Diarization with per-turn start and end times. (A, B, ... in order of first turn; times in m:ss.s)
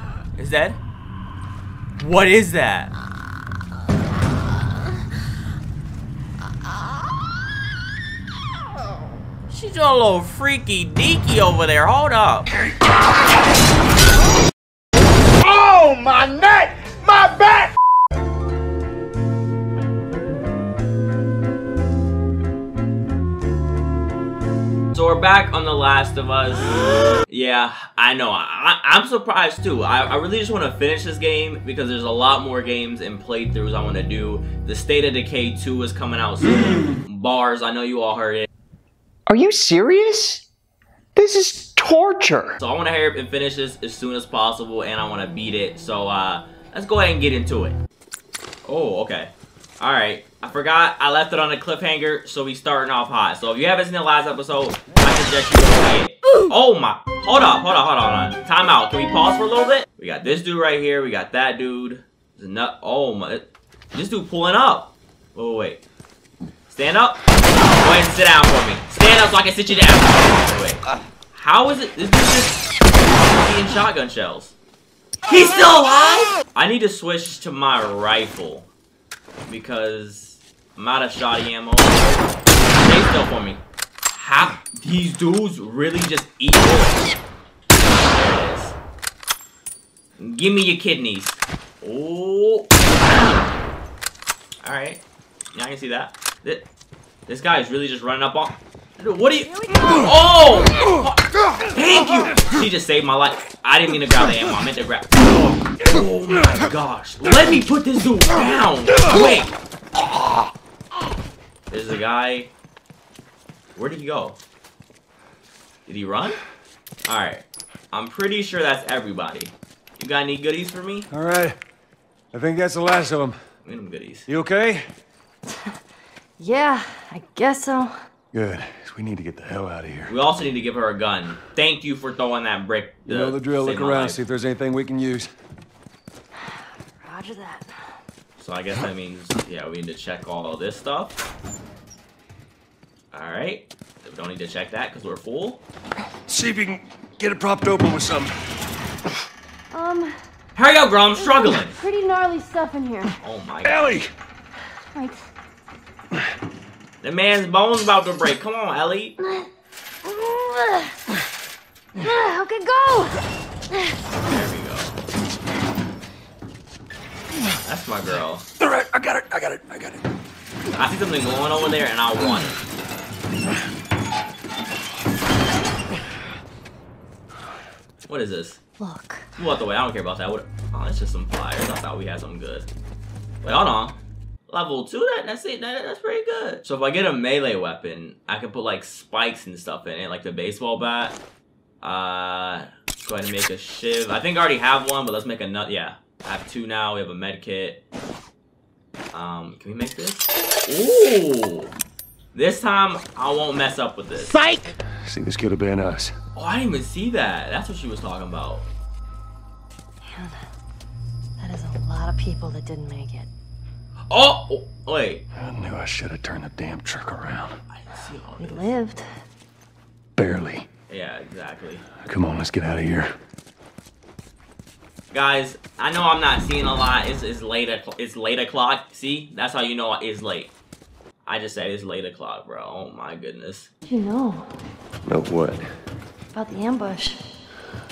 0:00.4-0:00.8 A
0:02.0-0:02.9 A
0:09.5-0:12.5 A
0:15.4-0:17.8 B
0:24.9-0:38.5 A
0:39.3-0:40.4 C
0:41.1-0:42.6 C
0:42.6-0:47.8 A
0:48.6-1:05.8 A
1:06.7-1:10.8 A
1:11.3-1:14.6 A
1:15.3-1:18.7 A
1:19.5-1:27.1 A
1:28.0-1:28.8 A
1:30.2-1:33.5 A
1:34.6-1:35.0 A
1:35.5-1:36.6 A
1:37.3-1:49.5 A
1:39.4-1:40.2 D
1:51.7-1:52.5 A
1:53.8-1:54.4 A
1:55.8-1:56.4 A
1:57.0-2:01.1 A
2:01.1-2:01.6 E
2:02.3-2:03.4 E
2:03.6-2:04.3 A
2:04.3-2:04.8 E
2:05.5-2:05.8 D
2:06.4-2:08.0 D
2:08.3-2:10.1 E
2:10.1-2:14.2 A
2:13.0-2:15.3 E
2:16.4-2:17.8 D
2:18.4-2:21.2 A
2:23.1-2:25.6 A
2:26.3-2:28.3 E
2:29.7-2:30.2 D
2:30.6-2:31.8 A
2:31.2-2:33.1 D
2:33.2-2:33.9 A
2:33.6-2:34.1 E
2:34.9-2:35.3 D
2:37.0-2:39.2 A
2:40.0-2:41.0 D
2:42.0-2:43.9 D
2:44.2-2:44.9 A
2:47.6-2:48.4 A
2:48.6-2:50.0 E
2:50.7-2:52.6 A
2:58.1-2:58.6 A
2:58.8-2:59.3 D
2:59.4-3:02.7 A
3:03.4-3:04.0 A
3:04.5-3:11.2 A
3:11.8-3:17.8 A
3:19.1-3:21.7 A
3:22.3-3:24.4 A
3:24.9-3:26.2 E
3:26.4-3:28.7 A
3:30.0-3:30.4 D
3:31.4-3:33.3 D
3:34.1-3:35.2 A
3:35.3-3:37.5 E
3:37.7-3:38.7 A
3:38.4-3:39.2 D
3:40.2-3:40.7 E
3:40.9-3:41.8 A
3:42.0-3:43.1 E
3:45.1-3:50.5 A
3:51.2-3:53.7 A
3:53.9-3:54.5 D
3:55.0-3:55.7 E
3:56.3-3:57.4 D